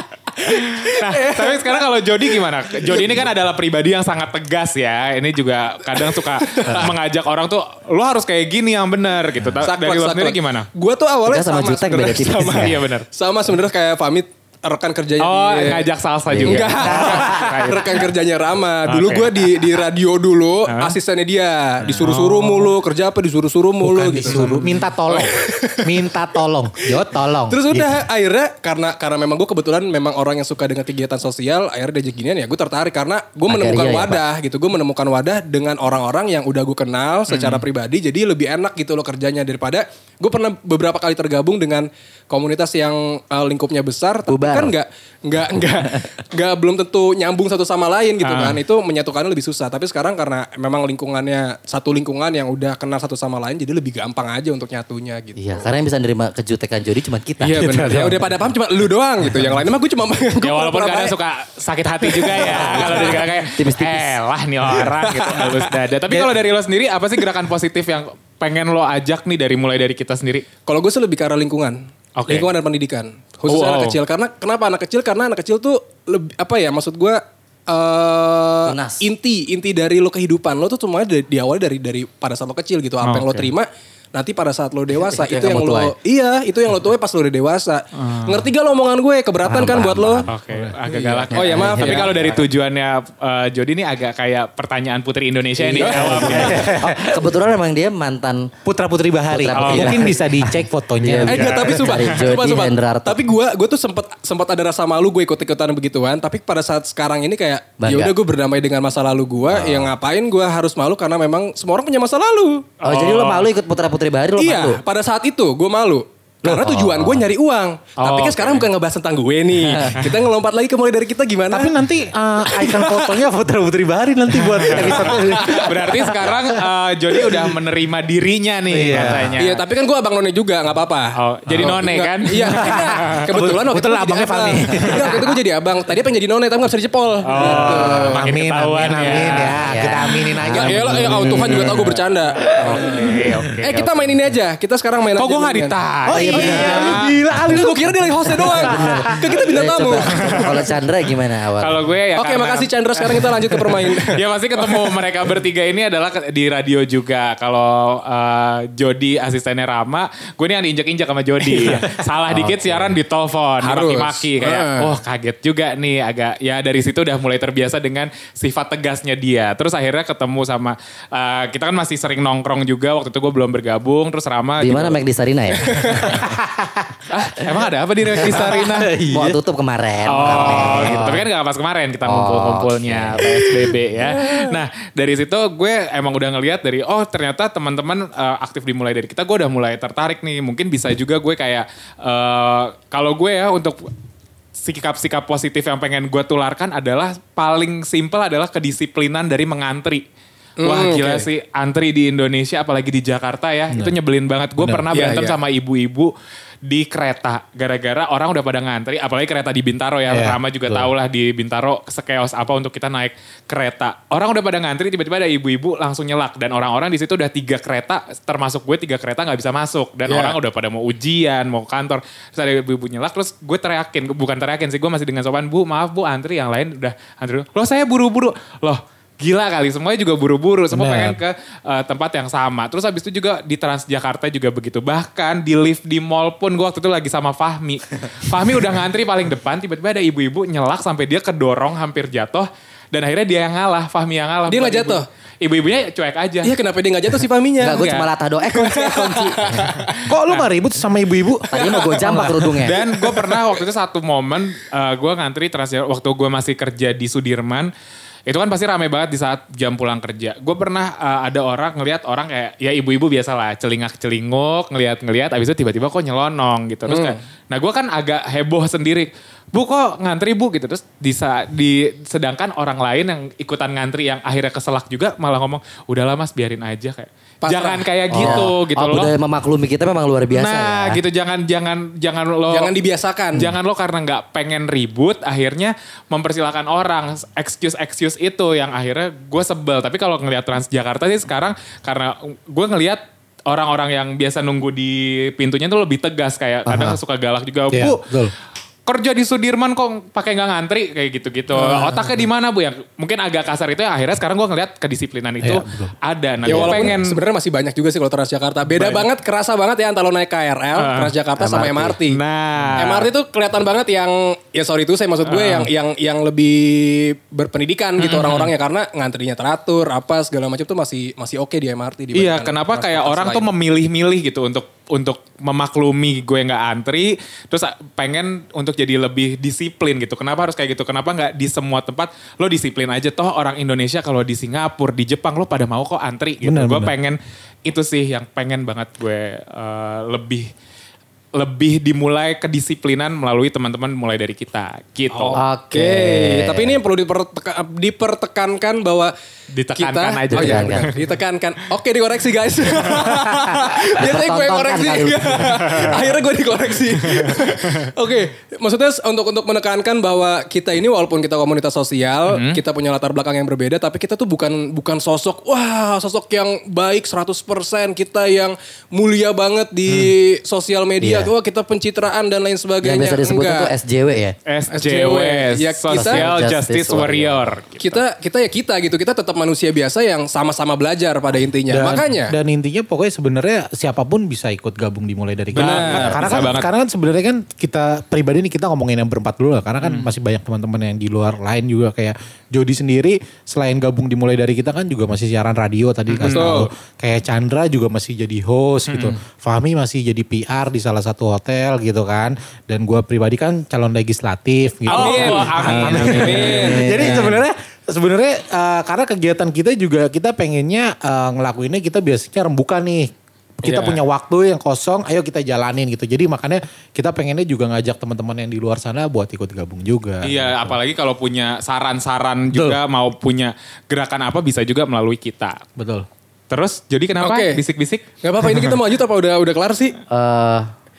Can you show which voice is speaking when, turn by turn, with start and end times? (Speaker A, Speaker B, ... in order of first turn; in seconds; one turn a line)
Speaker A: 0.4-10.7
Speaker B: 0.7-3.2
Speaker B: 6.0-6.9
Speaker B: 9.6-15.9
Speaker C: 11.2-12.8
Speaker A: 12.5-13.1
Speaker A: 15.2-18.1
Speaker C: 16.3-17.8
Speaker B: 16.4-25.9
Speaker A: 18.9-19.6
Speaker A: 20.7-20.9
Speaker D: 21.8-22.1
Speaker A: 22.0-22.7
Speaker D: 23.8-28.0
Speaker B: 27.5-55.4
Speaker C: 33.5-34.2
Speaker A: 37.3-37.6
Speaker C: 44.3-44.8
Speaker A: 48.2-48.6
Speaker C: 55.4-58.2
Speaker B: 57.4-61.1
Speaker D: 57.6-58.2
Speaker A: 60.4-70.5
Speaker B: 62.0-63.1
Speaker C: 62.5-64.2
Speaker B: 64.9-65.5
Speaker D: 66.1-66.4
Speaker B: 70.7-90.2
Speaker A: 72.2-72.5
Speaker A: 73.5-74.0
Speaker C: 78.6-79.1
Speaker A: 83.0-83.5
Speaker C: 84.9-85.9
Speaker A: 88.0-88.5
Speaker C: 89.4-90.3
Speaker A: 90.3-96.6
Speaker D: 90.5-90.8
Speaker B: 90.9-92.1
Speaker C: 91.3-92.5
Speaker C: 95.6-98.5
Speaker B: 95.7-96.6
Speaker D: 96.3-97.3
Speaker D: 98.6-101.9
Speaker C: 99.3-103.2
Speaker A: 99.5-100.0
Speaker B: 101.2-112.7
Speaker A: 101.3-102.2
Speaker C: 107.8-108.1
Speaker C: 109.5-109.9
Speaker A: 112.8-113.5
Speaker C: 112.8-114.8
Speaker B: 114.4-121.7
Speaker D: 116.4-116.9
Speaker A: 118.0-118.7
Speaker D: 121.5-126.6
Speaker B: 122.5-123.2
Speaker A: 124.4-129.6
Speaker B: 124.8-126.1
Speaker D: 127.1-127.6
Speaker D: 128.7-129.4
Speaker B: 129.4-138.2
Speaker A: 131.2-133.2
Speaker D: 131.5-131.8
Speaker D: 132.4-135.4
Speaker A: 137.2-139.7
Speaker D: 137.4-141.9
Speaker C: 139.3-141.4
Speaker B: 140.6-145.7
Speaker A: 141.1-144.2
Speaker D: 142.5-143.4
Speaker A: 145.1-147.2
Speaker D: 146.0-149.4
Speaker B: 146.3-146.9
Speaker B: 147.5-150.5
Speaker C: 148.4-151.8
Speaker A: 151.6-175.0
Speaker B: 152.1-154.8
Speaker B: 161.4-161.8
Speaker C: 162.3-162.9
Speaker B: 163.6-164.9
Speaker C: 174.6-175.7
Speaker B: 175.7-176.1
Speaker D: 175.9-177.0
Speaker A: 177.1-178.9
Speaker D: 178.1-179.4
Speaker C: 179.1-181.3
Speaker A: 180.1-193.8
Speaker D: 180.2-181.1
Speaker C: 182.0-183.2
Speaker D: 183.3-184.4
Speaker A: 194.6-200.0
Speaker B: 200.6-201.3
Speaker A: 200.6-206.1
Speaker D: 204.6-204.8
Speaker B: 204.9-205.4
Speaker A: 206.7-246.5
Speaker D: 210.1-210.4
Speaker B: 220.1-220.4
Speaker D: 230.7-231.2
Speaker B: 244.5-245.0
Speaker B: 246.4-247.9
Speaker C: 247.6-249.4
Speaker A: 247.6-248.1
Speaker B: 248.5-249.2
Speaker A: 249.5-250.4
Speaker D: 250.0-252.7
Speaker C: 251.5-252.8
Speaker A: 252.6-257.7
Speaker A: 258.3-279.1
Speaker B: 266.9-267.2
Speaker B: 277.4-278.5
Speaker C: 278.1-281.0
Speaker A: 280.3-282.7
Speaker B: 282.5-283.5
Speaker A: 283.3-298.0
Speaker D: 296.7-297.0
Speaker D: 297.7-298.3
Speaker A: 298.9-307.2
Speaker D: 301.5-302.3
Speaker D: 305.4-305.9
Speaker B: 306.4-312.2
Speaker D: 306.5-306.9
Speaker A: 308.6-309.1
Speaker A: 310.8-311.1
Speaker C: 311.4-312.0
Speaker A: 312.1-313.1
Speaker D: 312.6-312.8
Speaker B: 312.8-323.5
Speaker A: 315.2-315.7
Speaker A: 318.0-318.5
Speaker A: 322.1-340.5
Speaker D: 336.4-336.9
Speaker A: 341.4-345.4
Speaker B: 345.2-349.1
Speaker C: 345.3-346.8
Speaker A: 349.5-351.0
Speaker B: 349.7-373.7
Speaker C: 350.3-350.9
Speaker C: 353.9-355.8
Speaker A: 357.0-357.6
Speaker A: 362.3-362.6
Speaker C: 371.0-371.3
Speaker C: 372.8-374.4
Speaker A: 374.4-378.0
Speaker B: 374.7-376.2
Speaker C: 375.9-377.5
Speaker B: 377.8-382.3
Speaker D: 381.7-413.1
Speaker A: 385.5-386.7
Speaker B: 385.5-386.3
Speaker A: 389.8-390.1
Speaker A: 396.1-396.6
Speaker B: 396.2-396.6
Speaker A: 398.9-399.2
Speaker A: 404.9-406.7
Speaker B: 404.9-405.5
Speaker C: 405.6-407.4
Speaker B: 406.1-407.3
Speaker D: 413.6-420.8
Speaker B: 413.6-414.0
Speaker A: 420.2-425.6
Speaker D: 422.5-422.8
Speaker D: 425.8-426.1
Speaker A: 426.5-428.1
Speaker B: 427.2-427.6
Speaker B: 428.2-429.9
Speaker C: 430.1-430.7